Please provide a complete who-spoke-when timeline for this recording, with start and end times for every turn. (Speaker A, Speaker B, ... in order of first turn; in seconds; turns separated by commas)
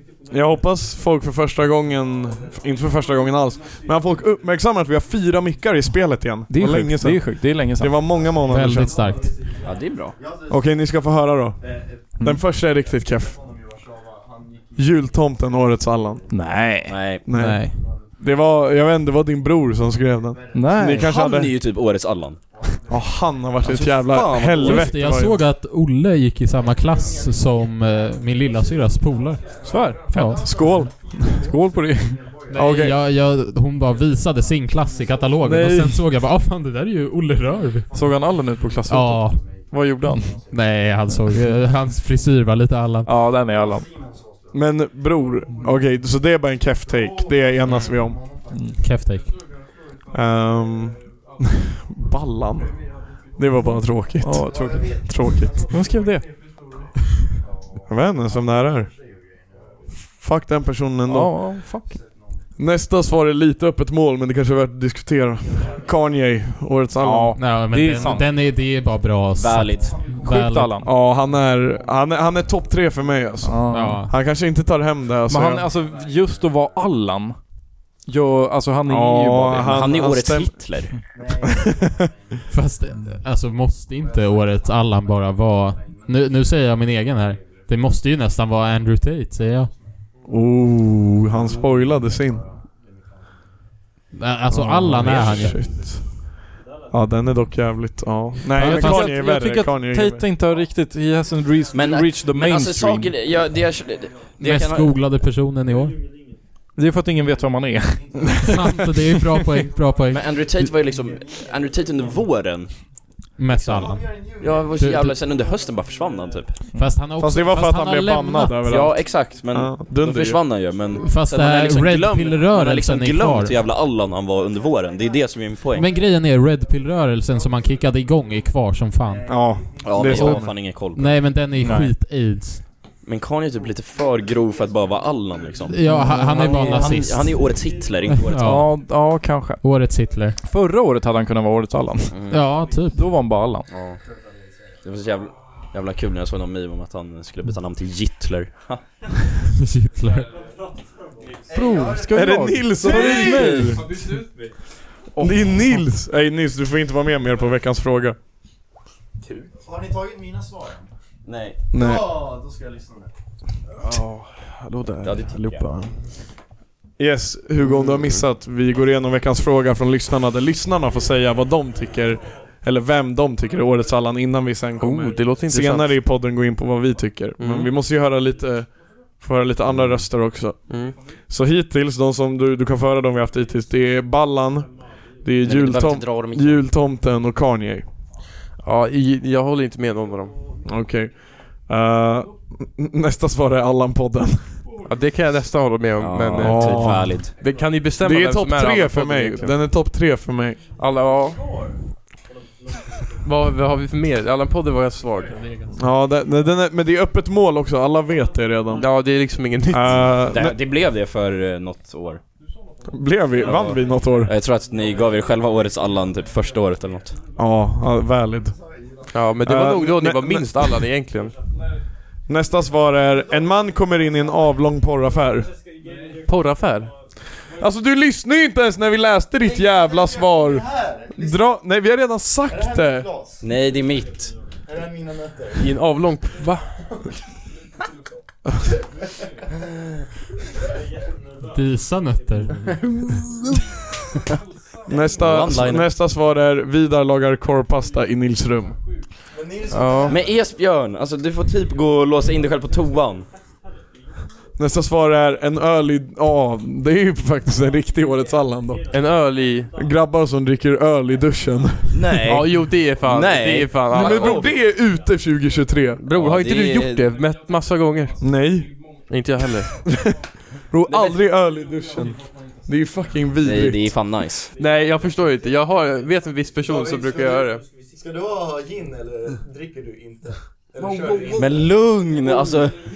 Speaker A: 0.3-9.1, Speaker B: 6.5-8.0, Speaker C: 8.5-9.5, Speaker D: 9.6-10.2, Speaker A: 10.5-11.6, Speaker A: 12.2-13.4, Speaker A: 14.8-16.2, Speaker B: 16.3-17.0, Speaker D: 16.8-17.3, Speaker A: 17.2-21.6, Speaker C: 17.3-17.9, Speaker B: 20.5-21.1, Speaker D: 21.0-22.4, Speaker A: 22.9-25.4, Speaker D: 23.7-24.8, Speaker C: 24.6-30.5, Speaker B: 29.6-30.6, Speaker A: 30.2-31.4, Speaker B: 31.3-32.2, Speaker C: 32.5-37.9, Speaker A: 32.5-33.0, Speaker B: 35.4-36.0, Speaker B: 37.9-40.4, Speaker C: 38.9-39.4, Speaker C: 40.5-43.1, Speaker B: 43.0-43.9, Speaker A: 44.5-48.2, Speaker B: 48.5-48.8, Speaker C: 48.8-49.3, Speaker A: 50.1-55.6, Speaker B: 54.2-56.3, Speaker A: 57.9-58.9, Speaker A: 60.0-61.4, Speaker B: 61.0-62.0, Speaker A: 62.6-67.4, Speaker B: 67.0-68.3, Speaker C: 67.3-70.8, Speaker D: 69.3-70.0, Speaker B: 70.2-70.9, Speaker A: 70.8-75.7, Speaker B: 73.4-74.1, Speaker C: 73.7-74.1, Speaker B: 75.3-79.8, Speaker A: 78.9-80.8, Speaker D: 79.6-81.0, Speaker A: 81.4-82.1, Speaker C: 82.5-89.7, Speaker A: 90.2-92.5, Speaker C: 94.1-95.8, Speaker A: 94.5-96.1, Speaker A: 96.9-100.2, Speaker C: 98.5-99.3, Speaker B: 98.6-103.1, Speaker D: 101.7-105.0, Speaker C: 104.4-106.0, Speaker B: 106.7-109.4, Speaker C: 108.4-110.7, Speaker D: 110.1-116.6, Speaker C: 113.3-114.2, Speaker E: 113.9-114.5, Speaker C: 114.8-115.2, Speaker C: 116.7-118.7, Speaker A: 117.2-120.5, Speaker D: 118.6-125.9, Speaker C: 121.0-123.5, Speaker C: 125.7-129.4, Speaker A: 129.3-130.6, Speaker D: 129.8-131.2, Speaker C: 130.2-132.7, Speaker B: 131.6-131.9, Speaker D: 133.0-138.7, Speaker C: 135.7-137.4, Speaker B: 135.8-136.9, Speaker C: 138.1-138.7, Speaker B: 138.4-139.6, Speaker C: 139.6-140.4, Speaker B: 140.4-142.2, Speaker D: 142.1-142.5, Speaker C: 142.3-143.0, Speaker B: 142.8-143.7, Speaker D: 143.7-144.0, Speaker D: 144.8-148.8, Speaker C: 149.5-150.3, Speaker B: 151.5-154.2, Speaker A: 152.1-154.0, Speaker D: 153.0-153.7, Speaker A: 155.2-158.2, Speaker B: 155.2-155.6, Speaker E: 159.9-160.4, Speaker D: 161.2-161.6, Speaker A: 161.7-162.2, Speaker E: 161.8-163.1, Speaker F: 163.8-165.9, Speaker D: 165.0-165.7, Speaker A: 167.0-187.9, Speaker F: 167.6-168.2, Speaker F: 174.8-176.0, Speaker F: 177.4-177.7, Speaker D: 179.7-180.1, Speaker F: 180.7-181.0, Speaker D: 185.4-186.7, Speaker F: 188.6-190.3, Speaker A: 190.6-194.6, Speaker F: 194.8-199.6, Speaker D: 196.0-197.4, Speaker A: 196.4-197.3, Speaker A: 198.0-200.6, Speaker F: 200.8-201.5, Speaker F: 203.2-205.7, Speaker A: 205.7-208.9, Speaker F: 208.8-210.2, Speaker A: 209.7-210.6, Speaker D: 210.3-212.2, Speaker A: 212.9-214.3, Speaker D: 213.4-217.2, Speaker A: 217.3-218.6, Speaker F: 219.1-221.4, Speaker A: 219.4-220.8, Speaker A: 222.3-225.5, Speaker F: 226.2-226.9, Speaker A: 227.5-233.1, Speaker E: 229.8-231.3, Speaker E: 232.5-233.4, Speaker D: 233.4-234.3, Speaker E: 234.7-235.7, Speaker F: 235.6-236.7, Speaker C: 241.5-243.0, Speaker A: 244.8-248.8, Speaker D: 245.1-245.9, Speaker E: 249.3-250.1, Speaker F: 249.7-250.2, Speaker D: 250.1-253.3, Speaker A: 254.6-258.9, Speaker F: 258.9-259.7, Speaker A: 259.7-262.4, Speaker D: 261.9-264.5, Speaker F: 262.2-264.5, Speaker A: 263.9-266.0, Speaker F: 266.0-268.2, Speaker D: 266.1-267.1, Speaker A: 268.2-268.8, Speaker F: 269.1-269.7, Speaker A: 269.8-274.1, Speaker D: 273.4-274.5, Speaker F: 274.6-277.6, Speaker E: 276.7-277.4, Speaker E: 278.0-281.6, Speaker D: 281.3-282.8